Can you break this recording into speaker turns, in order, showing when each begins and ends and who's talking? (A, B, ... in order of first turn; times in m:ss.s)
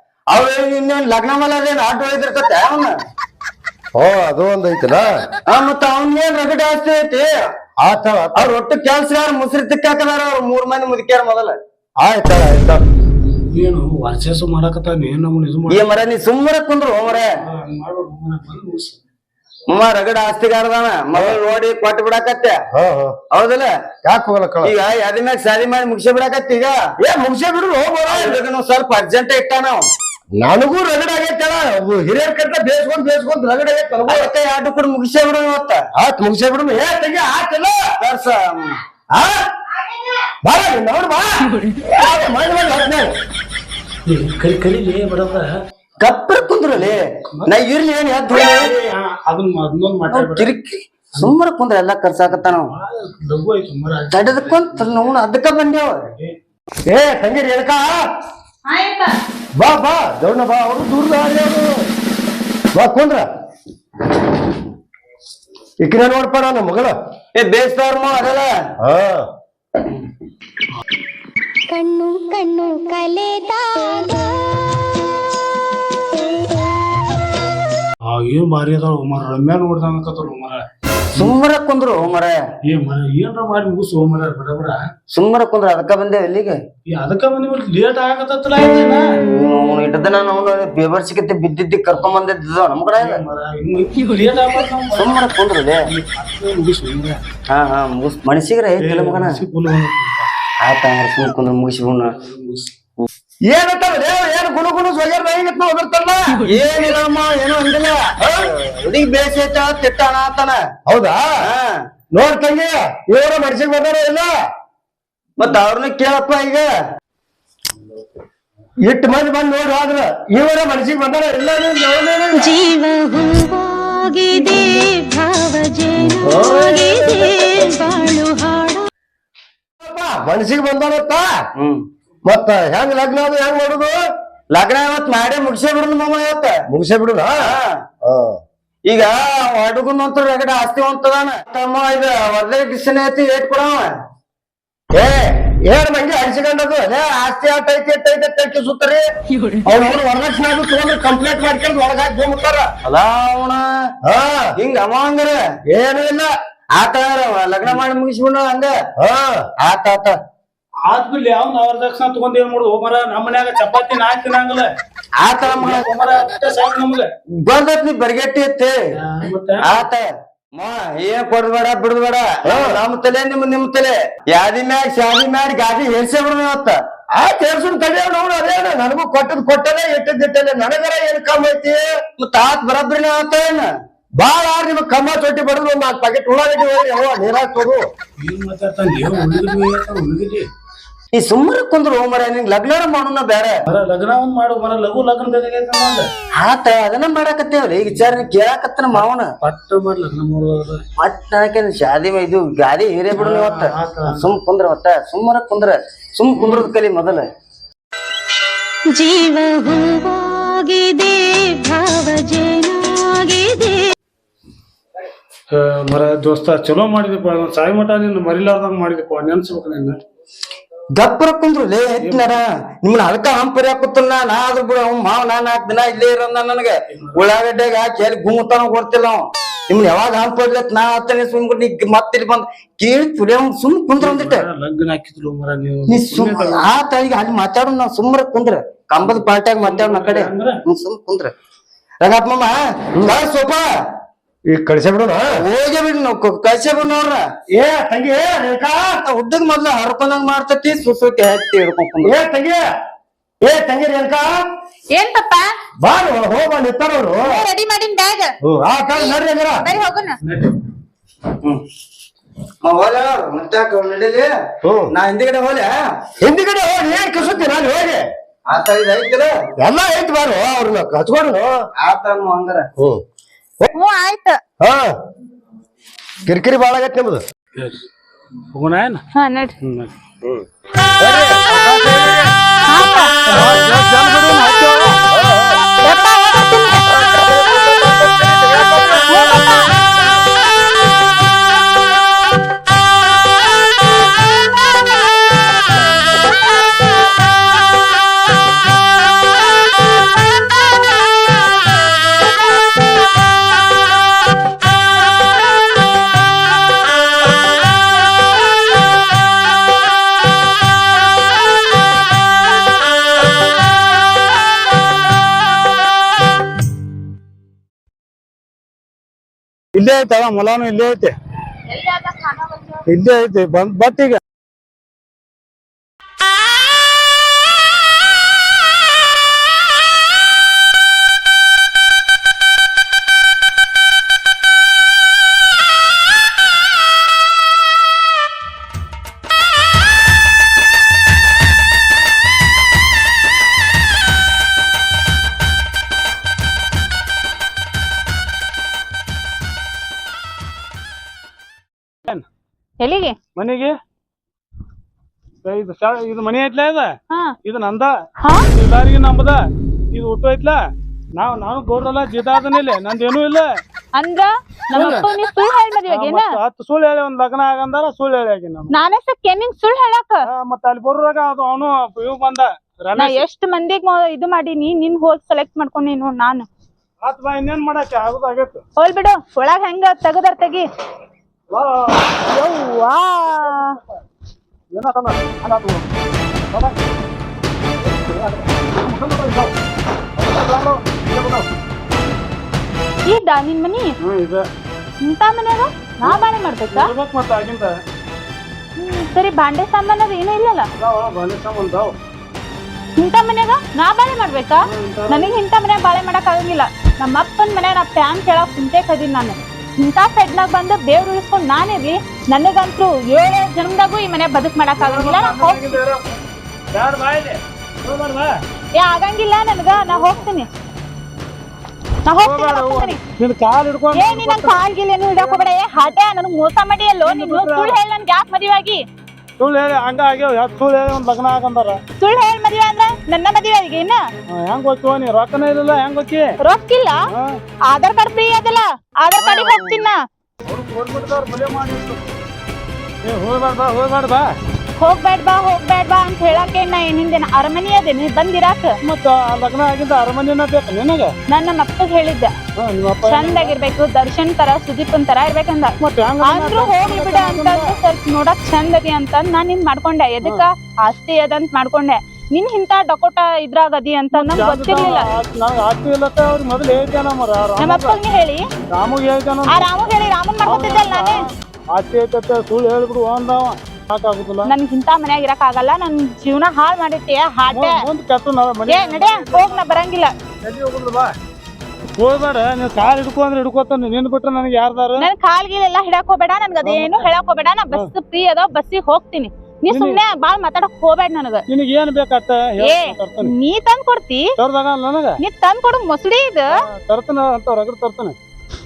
0:00.3-0:02.9 A
0:03.9-0:05.1 B
0:05.5-0:07.3 A
0:07.8-0:08.5 B
0:08.3-0:11.6 A
0:12.0-0:12.8 B
0:13.5-0:15.9 C
0:15.7-0:17.3 A
0:17.1-0:19.0 C
0:19.7-0:22.6 A
0:21.1-0:21.5 B
0:22.7-0:23.2 B
0:23.3-0:23.7 A
0:24.0-0:24.7 B
0:24.6-0:26.8 A
0:27.0-0:28.4 B
0:28.1-0:29.8 A
0:30.3-0:34.3 B
0:34.1-0:35.8 A
0:35.9-0:37.8 B
0:38.0-0:38.8 A
0:40.4-0:43.1 B
0:44.1-0:45.4 C
0:46.0-0:48.7 A
0:46.8-0:47.5 C
0:48.4-0:50.5 C
0:50.1-0:52.7 A
0:52.4-0:54.9 C
0:54.1-0:56.0 A
0:56.9-0:57.9 B
0:58.7-0:59.1 D
0:59.6-1:01.7 B
1:02.7-1:03.2 B
1:05.8-1:06.9 B
1:07.3-1:08.5 A
1:08.8-1:09.2 B
1:11.7-1:14.3 E
1:18.0-1:20.6 C
1:21.1-1:22.4 A
1:22.6-1:24.8 C
1:25.1-1:26.6 A
1:26.9-1:29.0 C
1:29.3-1:33.2 A
1:33.0-1:35.2 C
1:34.9-1:35.8 A
1:35.9-1:37.2 C
1:37.5-1:39.4 A
1:38.8-1:40.3 C
1:40.6-1:42.1 A
1:42.2-1:42.7 C
1:43.5-1:46.4 B
1:46.4-1:48.0 A
1:48.6-1:50.6 A
1:50.9-1:51.3 B
1:52.1-1:54.3 B
1:55.4-1:56.7 A
1:58.8-2:02.6 B
2:02.3-2:08.9 E
2:06.2-2:06.9 B
2:09.8-2:11.2 B
2:11.6-2:11.8 A
2:12.3-2:14.0 B
2:14.5-2:16.6 A
2:16.7-2:18.4 B
2:17.4-2:17.7 A
2:18.9-2:23.9 A
2:24.9-2:26.8 B
2:26.8-2:29.0 A
2:29.6-2:32.7 B
2:32.8-2:33.6 A
2:34.0-2:34.5 B
2:34.6-2:35.4 A
2:35.7-2:36.3 B
2:36.8-2:38.7 A
2:39.0-2:39.4 B
2:39.6-2:40.1 A
2:40.9-2:44.7 C
2:45.2-2:45.8 A
2:45.4-2:47.1 C
2:47.4-2:48.8 A
2:49.0-2:49.8 C
2:49.6-2:56.8 A
2:52.4-2:52.8 B
2:57.2-3:01.8 B
3:02.2-3:03.7 A
3:04.2-3:07.8 B
3:08.2-3:10.4 C
3:11.1-3:13.6 A
3:13.7-3:16.1 C
3:16.4-3:19.3 A
3:18.9-3:20.8 C
3:21.0-3:27.2 A
3:23.1-3:24.3 C
3:26.4-3:26.7 C
3:28.9-3:33.8 E
3:35.5-3:40.0 C
3:41.0-3:54.5 A
3:42.0-3:42.4 C
3:46.9-3:47.2 C
3:54.0-3:56.7 C
3:55.9-4:01.3 A
3:59.0-4:00.6 C
4:02.0-4:03.2 A
4:03.0-4:03.6 B
4:04.5-4:05.4 B
4:05.3-4:07.2 A
4:07.5-4:08.9 B
4:09.0-4:12.2 A
4:12.0-4:12.6 B
4:13.4-4:14.3 B
4:14.9-4:15.5 D
4:15.8-4:17.4 B
4:17.2-4:18.3 D
4:18.4-4:19.6 B
4:19.0-4:20.2 D
4:22.6-4:24.3 A
4:24.9-4:25.7 A
4:26.2-4:28.0 B
4:28.5-4:29.3 A
4:29.6-4:31.5 B
4:31.8-4:32.7 A
4:33.7-4:34.4 D
4:34.6-4:34.9 B
4:36.2-4:37.2 B
4:37.6-4:37.8 C
4:38.5-4:39.0 C
4:39.2-4:39.6 D
4:39.6-4:39.9 C
4:41.0-4:42.1 B
4:42.7-4:43.2 D
4:43.2-4:45.0 C
4:45.1-4:45.6 B
4:45.8-4:47.0 D
4:48.2-4:49.0 C
4:49.1-4:50.0 D
5:19.7-5:21.1 C
5:21.8-5:22.6 D
5:22.9-5:24.2 C
5:52.8-5:53.2 D
5:53.4-5:53.7 C
5:55.4-5:57.9 C
5:58.5-5:59.4 C
5:59.9-6:00.6 C
6:01.2-6:03.5 C
6:04.0-6:06.3 D
6:04.7-6:05.1 C
6:05.9-6:08.8 C
6:08.7-6:10.2 D
6:10.3-6:13.2 C
6:13.0-6:16.4 D
6:17.0-6:18.6 C
6:18.8-6:20.6 D
6:21.5-6:22.2 C
6:22.2-6:23.8 D
6:24.7-6:25.9 C
6:26.5-6:26.8 C
6:27.8-6:29.5 C
6:30.2-6:31.5 C
6:33.0-6:33.9 D
6:34.0-6:34.4 C
6:35.0-6:36.9 D
6:36.0-6:37.8 C
6:38.8-6:40.7 D
6:40.8-6:41.9 C
6:43.0-6:55.8 D
6:44.6-6:45.3 C
6:54.8-6:56.2 C
6:56.7-6:58.3 C
6:58.8-7:00.4 D
6:59.7-7:00.2 C
7:02.1-7:03.0 D
7:02.2-7:04.6 C
7:03.9-7:08.8 D
7:05.2-7:05.9 C
7:07.0-7:07.8 C
7:09.4-7:11.8 C
7:12.0-7:14.0 D
7:14.3-7:16.3 C
7:16.4-7:17.0 D
7:17.7-7:20.0 D
7:19.2-7:19.9 C
7:20.5-7:22.0 C
7:23.0-7:24.3 C
7:24.8-7:28.7 D
7:28.8-7:31.1 C
7:31.3-7:32.3 D
7:32.6-7:33.6 C
7:33.1-7:45.1 D
7:35.8-7:37.7 C
7:44.1-7:48.0 C
7:47.6-7:48.4 D
7:48.7-7:49.7 C
7:49.5-7:51.2 D
7:50.4-7:54.5 C
7:54.4-7:57.8 D
7:57.5-7:59.9 C
7:58.7-8:00.1 D
8:00.4-8:01.1 C
8:02.0-8:05.1 C
8:05.0-8:11.4 D
8:06.6-8:07.1 C
8:09.7-8:10.0 C
8:11.5-8:13.3 C
8:12.6-8:14.2 D
8:14.4-8:15.2 C
8:15.2-8:16.5 D
8:16.6-8:18.2 C